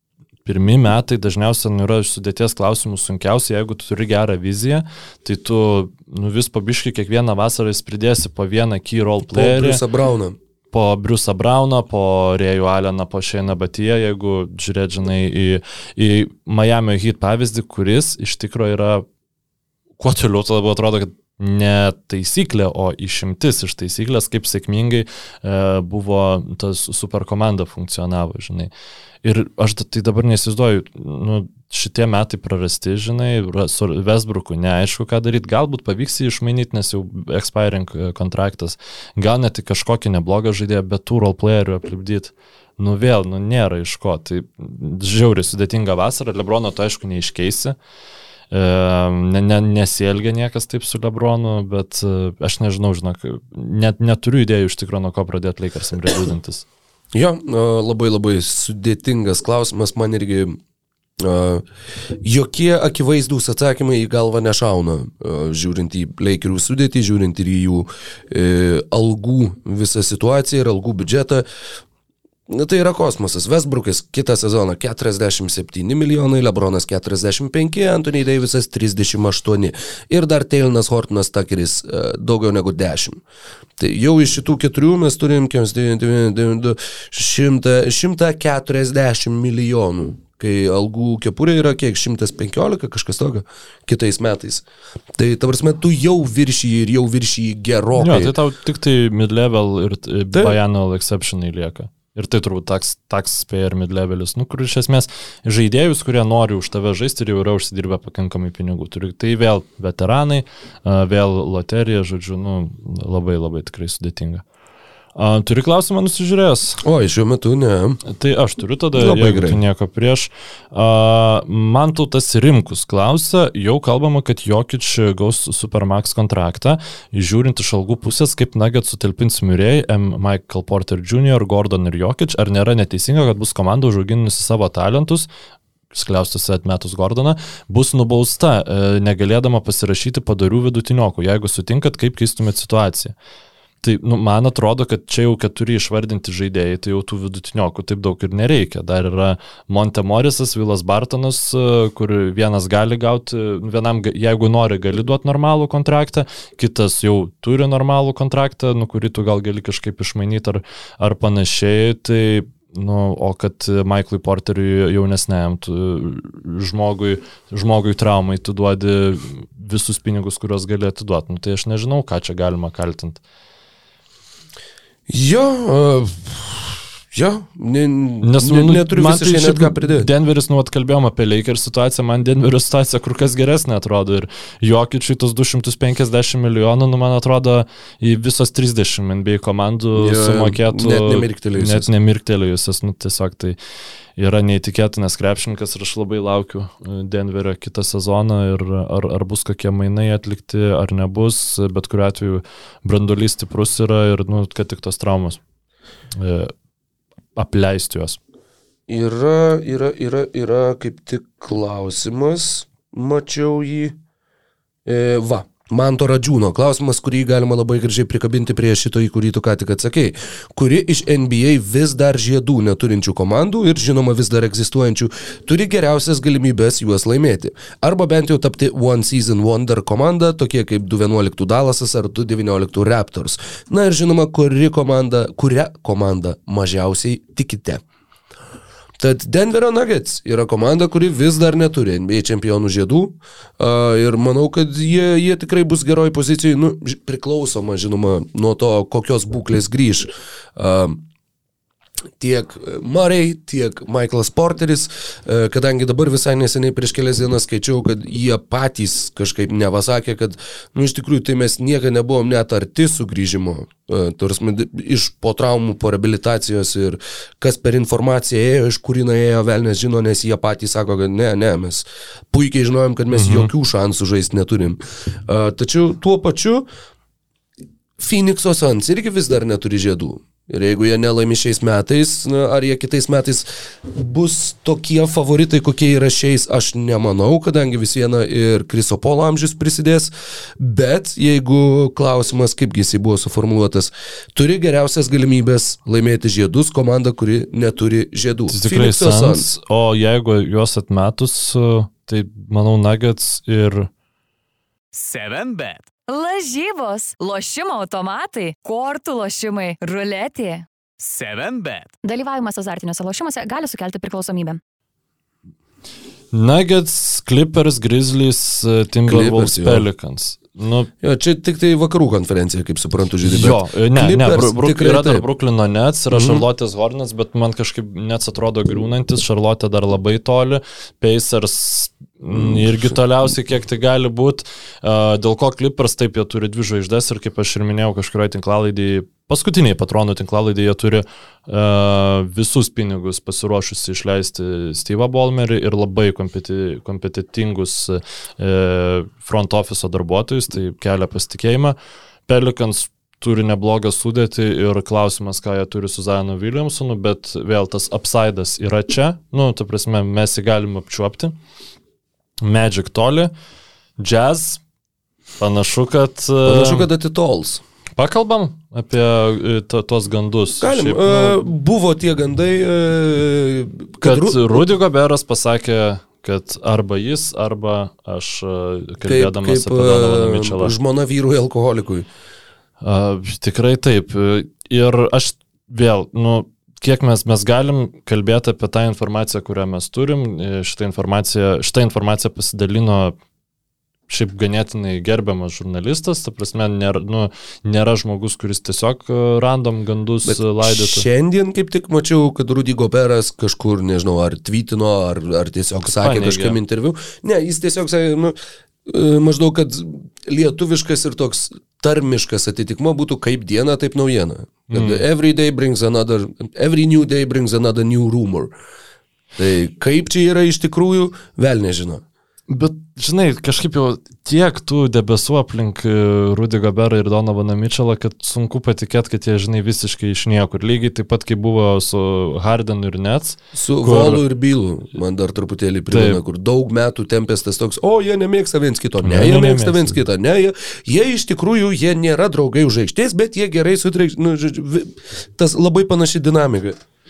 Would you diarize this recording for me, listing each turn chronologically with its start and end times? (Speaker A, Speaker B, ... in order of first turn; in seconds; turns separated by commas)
Speaker A: 0.5-9.8, Speaker B: 9.3-10.3, Speaker A: 10.7-19.0, Speaker A: 20.0-28.7, Speaker A: 29.2-47.8, Speaker A: 48.5-56.6, Speaker B: 57.1-60.6, Speaker B: 61.2-61.6, Speaker B: 62.2-71.5, Speaker B: 72.5-83.2, Speaker B: 83.8-94.6, Speaker B: 95.2-98.3, Speaker A: 98.0-114.4, Speaker B: 100.3-100.6, Speaker A: 115.2-116.8, Speaker B: 116.8-118.0, Speaker A: 118.0-135.3, Speaker B: 119.0-119.6, Speaker A: 135.9-143.1, Speaker A: 143.8-173.2, Speaker B: 175.1-180.1, Speaker A: 178.2-193.6, Speaker B: 189.9-191.9, Speaker A: 194.2-205.4, Speaker A: 206.1-206.5, Speaker A: 207.3-208.2, Speaker B: 208.9-213.9, Speaker B: 214.8-237.8, Speaker B: 239.0-251.0, Speaker B: 252.2-276.7, Speaker A: 273.1-273.5, Speaker B: 278.0-299.5, Speaker A: 298.5-303.9, Speaker C: 304.9-305.9, Speaker D: 306.1-310.6, Speaker C: 311.0-311.9, Speaker D: 312.0-314.6, Speaker A: 316.3-320.9, Speaker B: 319.1-319.9, Speaker B: 321.0-325.2, Speaker A: 323.2-361.4, Speaker B: 326.1-326.4, Speaker B: 332.3-332.6, Speaker A: 362.4-363.3, Speaker A: 364.0-364.6, Speaker A: 365.4-366.9, Speaker B: 366.4-367.6, Speaker A: 367.9-371.4, Speaker B: 370.6-374.6, Speaker A: 374.0-380.7, Speaker B: 379.0-382.1, Speaker A: 382.8-393.1, Speaker A: 394.1-401.1, Speaker B: 400.2-418.5, Speaker A: 405.8-406.6, Speaker A: 414.7-415.0, Speaker B: 419.4-422.0, Speaker A: 422.5-434.2, Speaker B: 433.5-446.8, Speaker A: 435.9-436.2, Speaker A: 439.0-440.0